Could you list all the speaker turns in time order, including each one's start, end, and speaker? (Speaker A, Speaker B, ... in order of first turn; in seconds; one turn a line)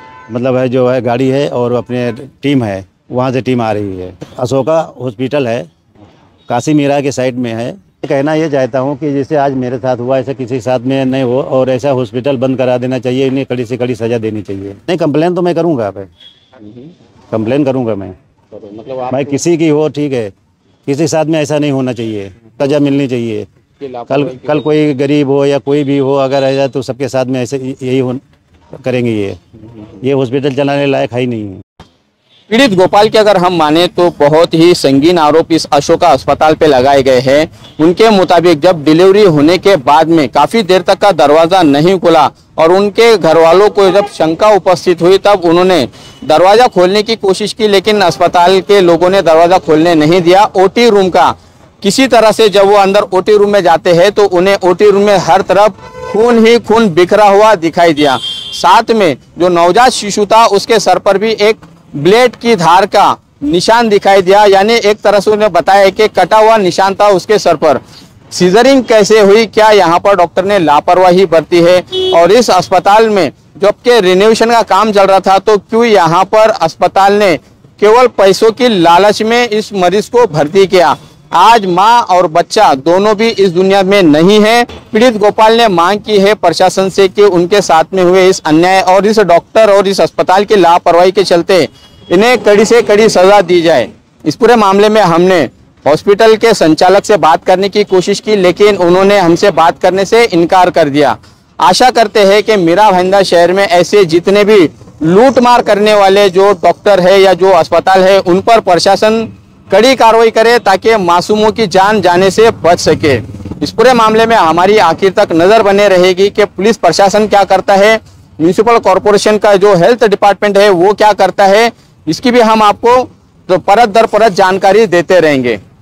Speaker A: 0.3-5.7
Speaker A: 6.5-16.1
Speaker A: 17.3-18.1
Speaker B: 18.5-19.4
Speaker A: 19.1-20.3
Speaker A: 20.9-23.5
Speaker B: 23.8-24.7
Speaker A: 24.1-28.2
Speaker A: 28.8-29.4
Speaker A: 30.0-31.6
Speaker B: 32.5-125.6